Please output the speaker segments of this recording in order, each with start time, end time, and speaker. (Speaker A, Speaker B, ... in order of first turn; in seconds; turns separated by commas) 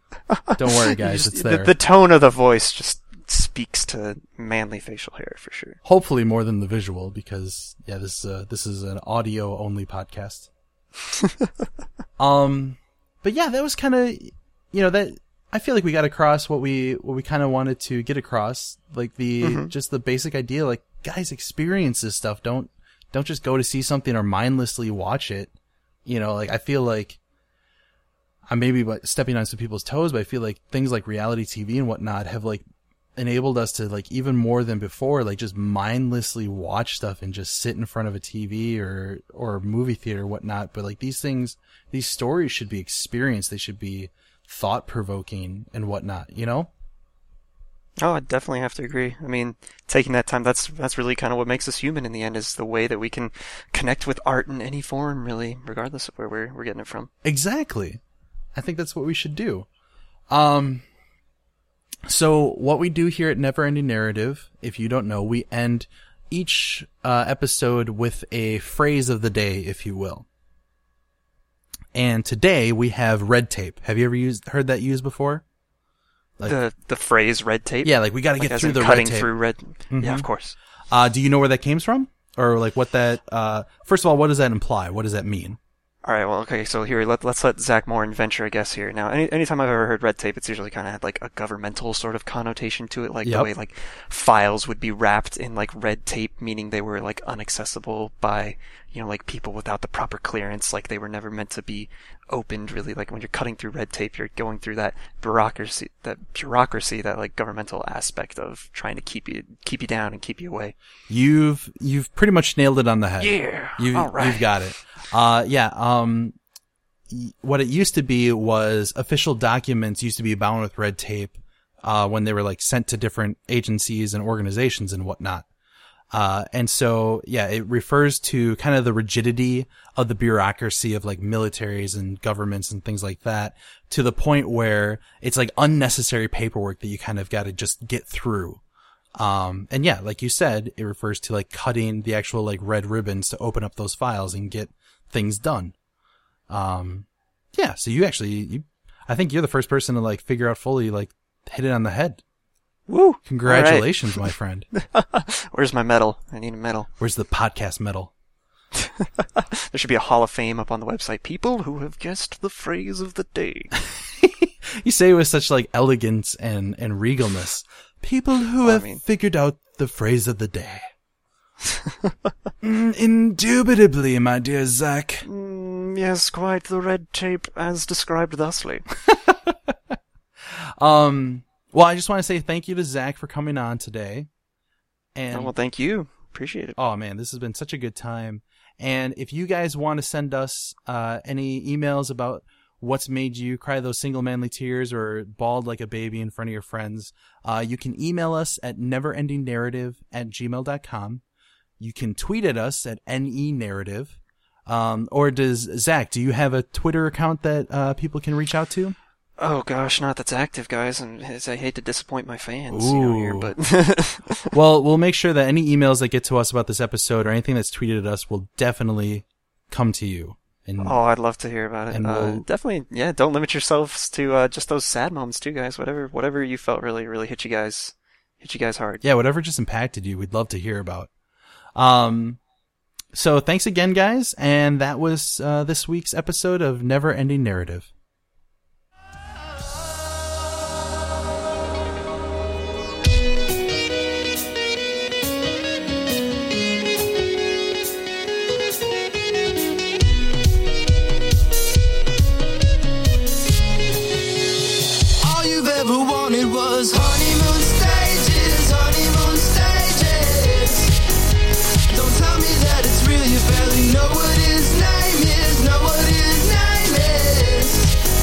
Speaker A: 0.5-1.7, Speaker B: 0.5-5.8, Speaker A: 5.8-10.5, Speaker A: 12.2-25.5, Speaker B: 19.4-19.7, Speaker A: 26.1-27.2, Speaker A: 28.5-32.6, Speaker A: 33.2-46.7, Speaker B: 48.0-57.1, Speaker A: 57.2-58.0, Speaker A: 58.5-59.7, Speaker A: 60.3-60.9, Speaker A: 62.1-70.3, Speaker A: 71.9-75.4, Speaker B: 76.5-80.5, Speaker A: 77.8-79.3, Speaker A: 79.9-80.3, Speaker A: 80.9-85.6, Speaker B: 86.0-110.7, Speaker A: 93.2-93.5, Speaker A: 111.1-116.3, Speaker B: 113.2-114.5, Speaker A: 117.1-125.5, Speaker A: 126.1-138.6, Speaker A: 139.2-145.7, Speaker A: 146.5-152.2, Speaker B: 152.9-156.9, Speaker A: 153.3-154.7, Speaker A: 157.0-158.1, Speaker B: 158.8-163.7, Speaker A: 163.9-170.9, Speaker B: 168.6-169.0, Speaker A: 172.6-175.3, Speaker B: 175.2-178.9, Speaker A: 179.0-180.0, Speaker A: 180.5-184.3, Speaker A: 185.2-185.5, Speaker B: 185.3-186.8, Speaker A: 186.8-201.2, Speaker A: 201.8-208.9, Speaker B: 209.4-214.5, Speaker A: 212.7-213.5, Speaker A: 214.5-221.0, Speaker B: 220.8-229.0, Speaker A: 221.9-222.4, Speaker A: 229.0-231.1, Speaker A: 231.8-232.4, Speaker A: 233.1-237.9, Speaker C: 255.2-260.9, Speaker C: 261.9-267.9